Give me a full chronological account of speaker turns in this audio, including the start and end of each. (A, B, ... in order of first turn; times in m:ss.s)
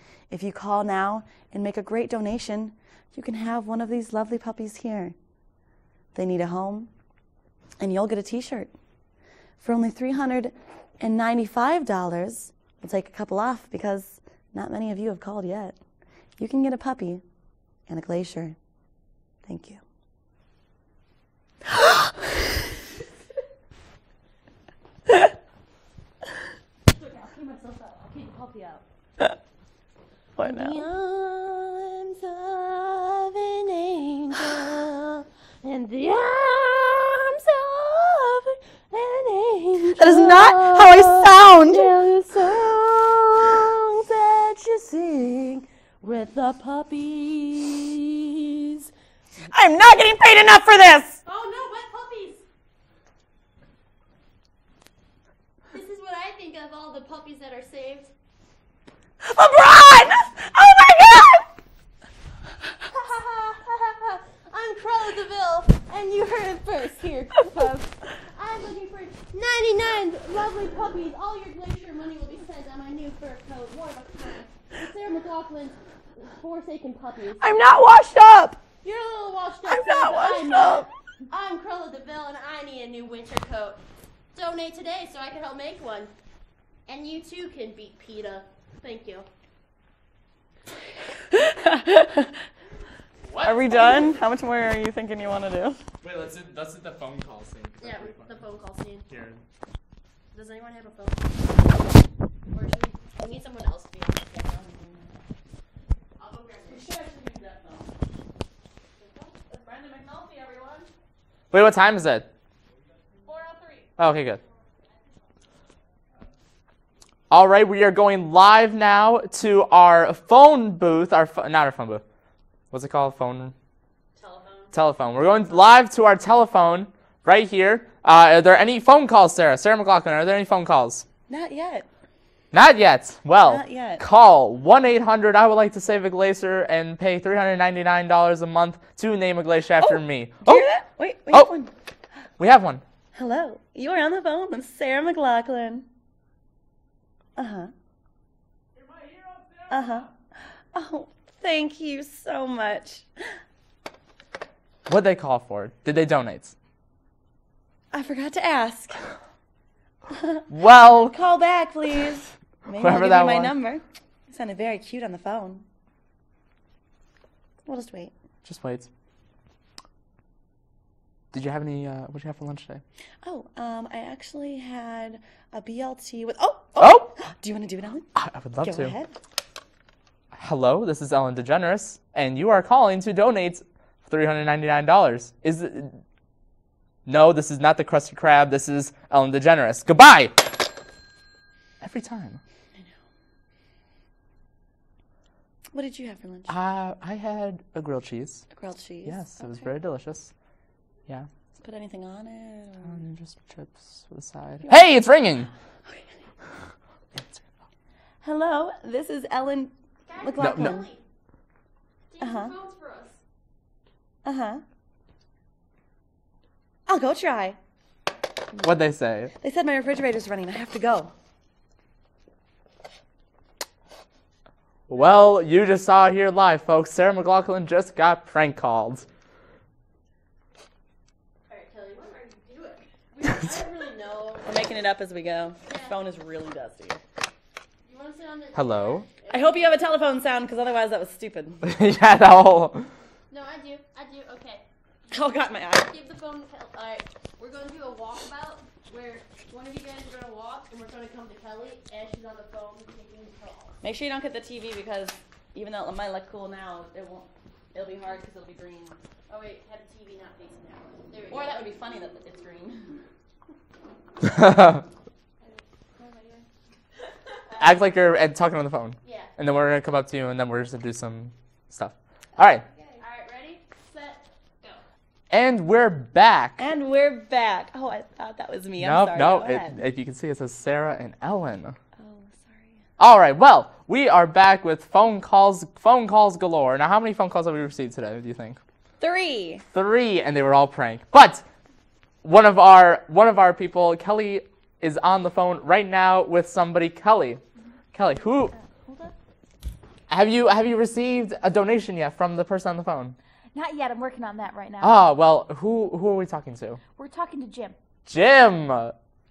0:00.3-0:05.1 A
0:06.1-0:06.9 A
0:07.8-0:08.7 A
0:09.6-0:15.8 A
0:16.4-0:17.2 A
0:17.9-0:18.6 A
0:19.4-0:19.8 A
0:26.9-0:28.8 B
0:30.4-0:30.8 A
0:30.4-0:48.8 B
0:40.0-0:41.9 A
0:49.5-0:51.2 A
0:51.2-0:52.4 B
0:55.7-0:58.1 B
0:59.2-1:01.4 A
1:02.9-1:17.6 B
1:17.4-1:18.6 A
1:18.8-1:23.8 B
1:19.7-1:20.9 A
1:24.3-1:26.1 B
1:26.9-1:29.3 B
1:31.3-1:32.4 A
1:33.2-1:33.8 C
1:33.4-1:35.8 A
1:36.0-1:38.4 C
1:37.8-1:39.0 B
1:39.1-1:39.4 C
1:40.3-1:41.5 B
1:42.5-1:45.1 B
1:46.2-1:46.9 B
1:46.6-1:47.9 A
1:49.0-1:50.9 A
1:51.5-1:52.3 C
1:53.2-1:53.9 A
1:54.0-1:54.4 C
1:54.4-1:55.4 D
1:57.3-2:02.0 C
2:02.7-2:03.5 C
2:04.2-2:04.6 A
2:04.7-2:11.0 C
2:11.3-2:11.9 A
2:12.5-2:20.7 C
2:13.4-2:14.0 A
2:19.8-2:21.7 A
2:22.4-2:22.8 C
2:23.1-2:25.8 A
2:27.4-2:27.7 A
2:29.7-2:30.1 A
2:30.7-2:33.4 A
2:34.8-2:36.6 C
2:37.9-2:39.0 A
2:40.1-2:45.6 A
2:40.5-2:41.1 C
2:42.7-2:43.6 C
2:47.6-2:48.1 A
2:48.4-2:48.9 C
2:51.3-2:52.8 C
2:53.2-2:58.1 A
2:56.8-2:57.1 C
2:58.1-2:59.0 C
2:58.6-2:59.1 A
3:00.3-3:06.0 C
3:07.1-3:10.6 C
3:11.8-3:12.4 C
3:15.7-3:16.5 A
3:16.5-3:18.5 C
3:18.5-3:19.7 A
3:19.0-3:20.3 C
3:21.6-3:23.0 A
3:22.8-3:25.5 C
3:24.6-3:24.9 A
3:25.8-3:26.2 A
3:27.1-3:27.4 C
3:28.2-3:30.9 A
3:30.0-3:31.0 B
3:30.4-3:30.8 C
3:32.1-3:33.2 B
3:32.2-3:32.5 A
3:34.2-3:34.6 A
3:36.9-3:37.6 A
3:38.6-3:39.3 C
3:39.4-3:41.1 A
3:44.9-3:49.0 C
3:51.5-3:54.7 B
3:54.4-3:57.0 A
3:55.6-3:56.0 B
3:57.8-3:59.9 B
3:58.5-3:59.1 C
3:59.3-4:01.7 A
4:01.6-4:02.9 C
4:03.3-4:04.6 B
4:05.1-4:05.9 A
4:05.8-4:13.7 B
4:13.8-4:19.0 A
4:19.3-4:21.7 B
4:21.3-4:22.9 A
4:24.2-4:24.8 C
4:25.4-4:26.4 B
4:27.6-4:32.6 C
4:29.0-4:29.3 B
4:33.0-4:34.8 B
4:35.3-4:36.7 C
4:36.6-4:39.8 A
4:38.8-4:41.8 C
4:42.0-4:42.8 A
4:43.0-4:48.6 C
4:49.0-4:49.6 A
4:49.7-4:51.4 C
4:52.2-4:57.4 C
4:57.9-4:58.6 C
4:58.8-4:59.1 A
5:00.1-5:03.2 C
5:03.5-5:04.9 D
5:04.8-5:06.8 C
5:07.0-5:07.7 A
5:07.2-5:07.7 D
5:08.0-5:08.9 C